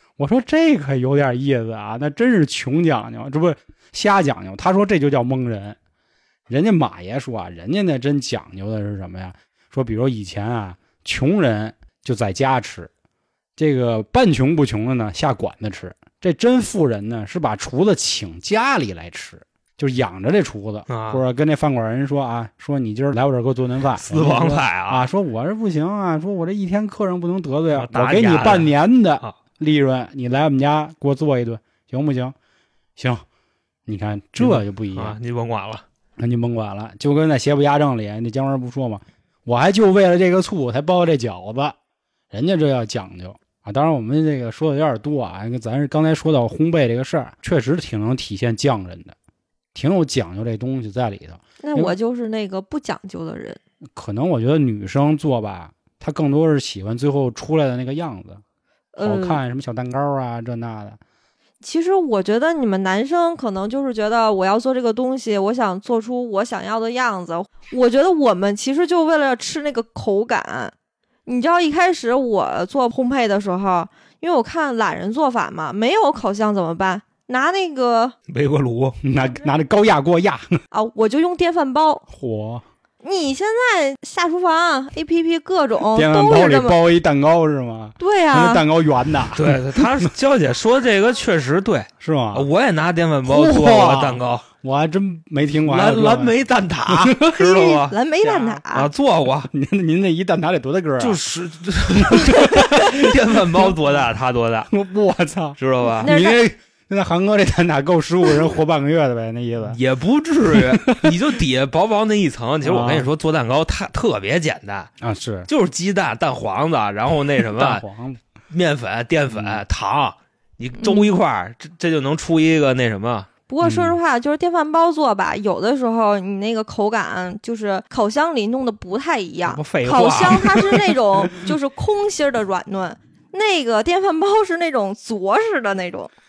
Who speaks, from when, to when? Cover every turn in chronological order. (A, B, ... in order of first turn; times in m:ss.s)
0:00.2-0:05.8 A
0:06.5-0:12.9 A
0:13.6-0:32.3 A
0:20.9-0:21.2 B
0:24.0-0:25.0 B
0:27.7-0:28.7 B
0:33.0-0:33.2 A
0:33.8-0:35.2 A
0:34.4-0:35.8 B
0:36.2-0:41.8 A
0:42.3-0:49.2 A
0:49.7-0:51.9 A
0:51.6-0:53.6 C
0:53.9-0:58.4 A
0:58.9-0:59.4 C
0:59.0-1:01.0 A
1:01.6-1:10.7 C
1:11.2-1:18.1 C
1:18.3-1:19.0 B
1:19.0-1:20.6 A
1:20.7-1:22.0 C
1:22.1-1:22.6 A
1:23.0-1:26.8 C
1:25.9-1:30.1 A
1:28.0-1:28.6 C
1:29.3-1:34.4 B
1:32.0-1:32.5 A
1:33.2-1:36.3 A
1:35.6-1:37.9 B
1:36.9-1:37.6 A
1:37.3-1:38.9 C
1:38.2-1:38.6 A
1:38.7-1:39.5 B
1:39.5-1:41.2 A
1:41.0-1:44.7 B
1:41.9-1:43.7 A
1:44.7-1:49.8 A
1:45.6-1:46.1 B
1:45.8-1:46.4 C
1:49.7-1:54.9 B
1:50.5-1:51.2 A
1:52.6-1:53.1 A
1:55.0-1:55.5 A
1:55.5-1:57.8 B
1:57.4-1:58.2 A
1:58.5-2:03.3 B
1:59.3-1:59.6 A
2:00.8-2:01.1 C
2:03.5-2:16.1 C
2:03.6-2:04.0 A
2:09.5-2:11.0 B